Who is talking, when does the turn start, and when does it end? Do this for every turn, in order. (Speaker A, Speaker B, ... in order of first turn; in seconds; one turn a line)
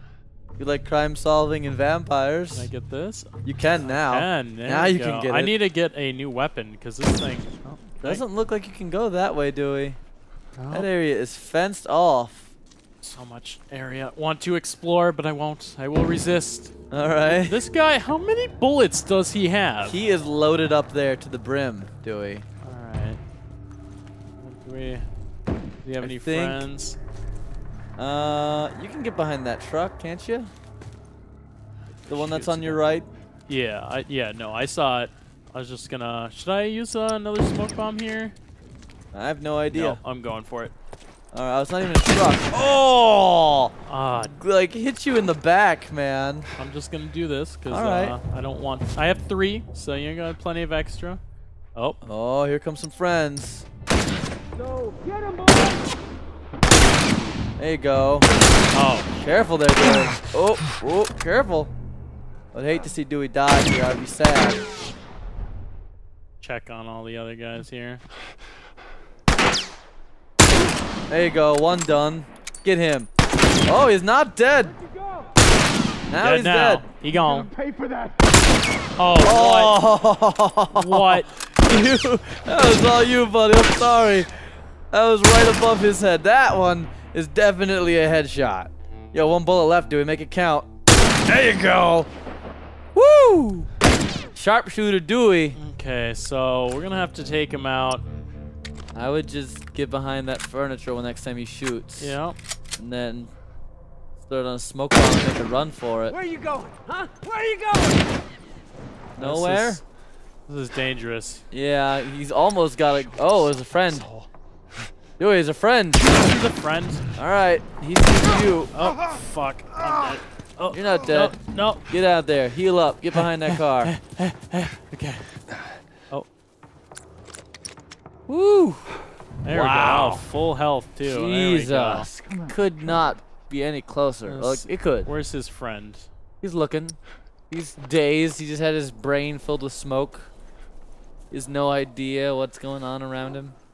Speaker A: 0.6-2.7
Speaker B: 2.5-8.2
Speaker A: 3.4-5.5
Speaker A: 8.0-10.0
Speaker B: 10.6-10.9
Speaker A: 10.7-12.5
Speaker B: 13.0-20.0
Speaker A: 16.9-17.6
Speaker A: 19.8-22.4
Speaker B: 22.6-23.2
Speaker B: 24.4-25.1
Speaker B: 25.8-27.0
Speaker A: 26.0-26.6
Speaker A: 28.0-30.5
Speaker B: 32.0-32.9
Speaker A: 32.1-33.1
Speaker B: 33.5-38.4
Speaker A: 39.1-40.0
Speaker B: 39.7-40.7
Speaker A: 41.3-46.5
Speaker B: 43.9-44.4
Speaker B: 46.6-51.2
Speaker A: 47.7-48.1
Speaker A: 52.0-53.7
Speaker C: 54.6-55.8
Speaker A: 57.6-58.3
Speaker B: 58.7-59.1
Speaker A: 59.1-61.7
Speaker A: 62.5-64.7
Speaker B: 66.4-68.0
Speaker A: 71.1-73.1
Speaker A: 73.7-74.8
Speaker A: 76.1-76.9
Speaker B: 76.2-77.5
Speaker C: 77.3-78.2
Speaker B: 79.0-79.8
Speaker A: 79.2-84.3
Speaker B: 80.7-81.3
Speaker A: 84.9-90.7
Speaker A: 91.3-92.1
Speaker A: 92.9-93.7
Speaker A: 94.4-95.6
Speaker B: 95.6-98.0
Speaker A: 99.0-102.2
Speaker B: 102.0-102.4
Speaker A: 102.8-103.3
Speaker A: 104.2-106.2
Speaker C: 106.1-108.1
Speaker B: 109.2-109.8
Speaker A: 109.2-109.8
Speaker B: 110.5-111.4
Speaker A: 111.5-114.1
Speaker A: 115.2-116.2
Speaker B: 116.0-117.1
Speaker A: 117.2-118.8
Speaker B: 118.7-121.9
Speaker A: 120.7-124.0
Speaker B: 123.2-125.4
Speaker A: 128.3-130.2
Speaker B: 129.4-132.1
Speaker A: 131.1-135.1
Speaker B: 134.2-136.1
Speaker A: 136.4-140.3
Speaker A: 141.3-143.6